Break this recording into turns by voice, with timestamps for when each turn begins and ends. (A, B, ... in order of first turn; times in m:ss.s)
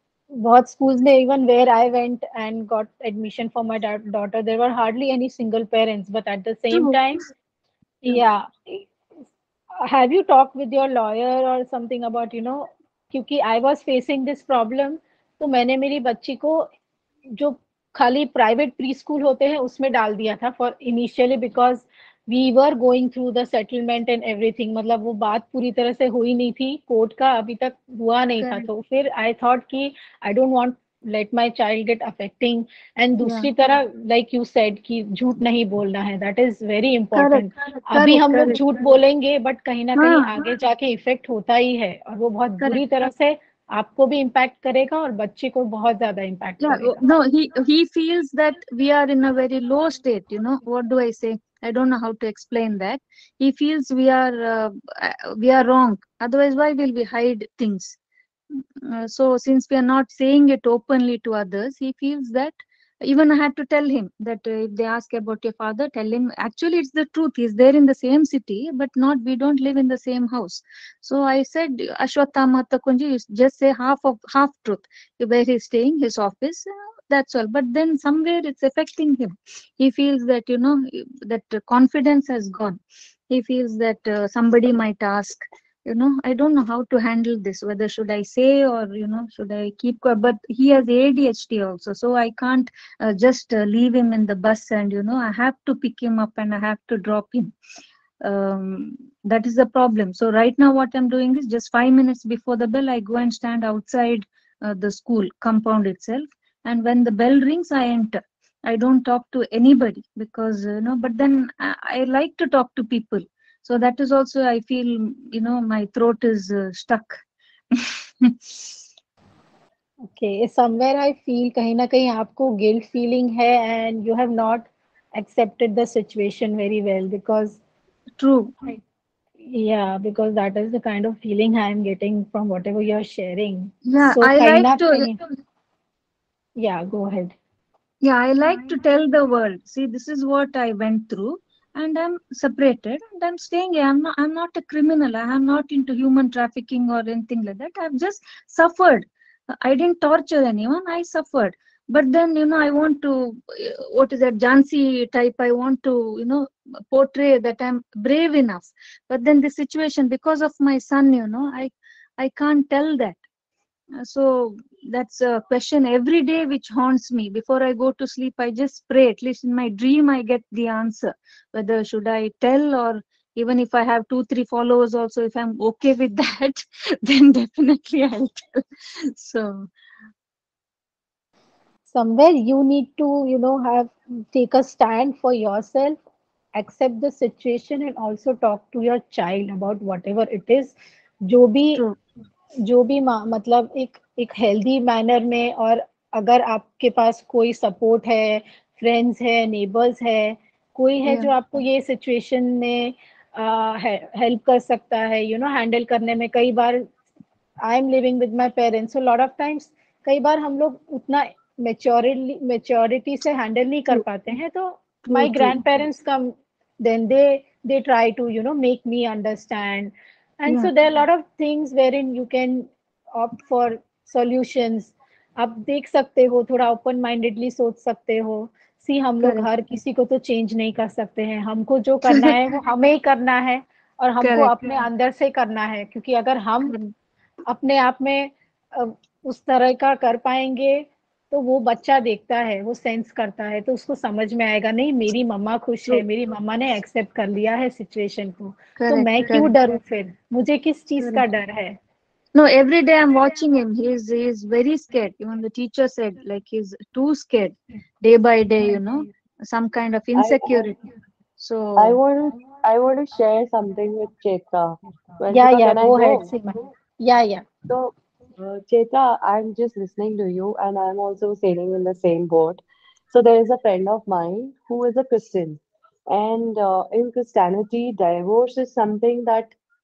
0:00.3-0:07.3 A
0:08.0-0:08.8 A
0:09.8-0:16.7 A
0:17.3-0:47.0 A
0:28.4-0:28.7 B
0:33.2-0:33.5 B
0:37.1-0:38.8 B
0:40.0-0:40.5 B
0:46.6-0:58.0 B
0:58.5-1:37.5 B
1:38.2-1:57.2 B
1:57.7-1:58.7 B
2:00.0-2:07.6 A
2:08.2-2:08.5 B
2:09.4-2:15.2 A
2:13.8-2:15.1 B
2:16.6-2:17.3 A
2:18.0-2:43.2 B
2:44.0-2:59.7 B
3:01.9-3:06.0 A
3:06.6-3:11.8 A
3:12.6-3:26.9 A
3:21.0-3:21.3 B
3:27.6-3:56.8 A
3:35.0-3:35.6 B
3:40.5-3:40.7 B
3:49.2-3:49.5 B
3:52.1-3:52.4 B
3:54.2-3:54.8 B
3:56.7-3:56.9 B
3:57.5-4:11.8 A
4:08.8-4:09.5 B
4:12.3-4:20.8 B
4:20.1-4:20.7 C
4:21.4-4:22.0 B
4:21.8-4:26.2 C
4:25.3-4:27.4 A
4:27.6-4:39.5 C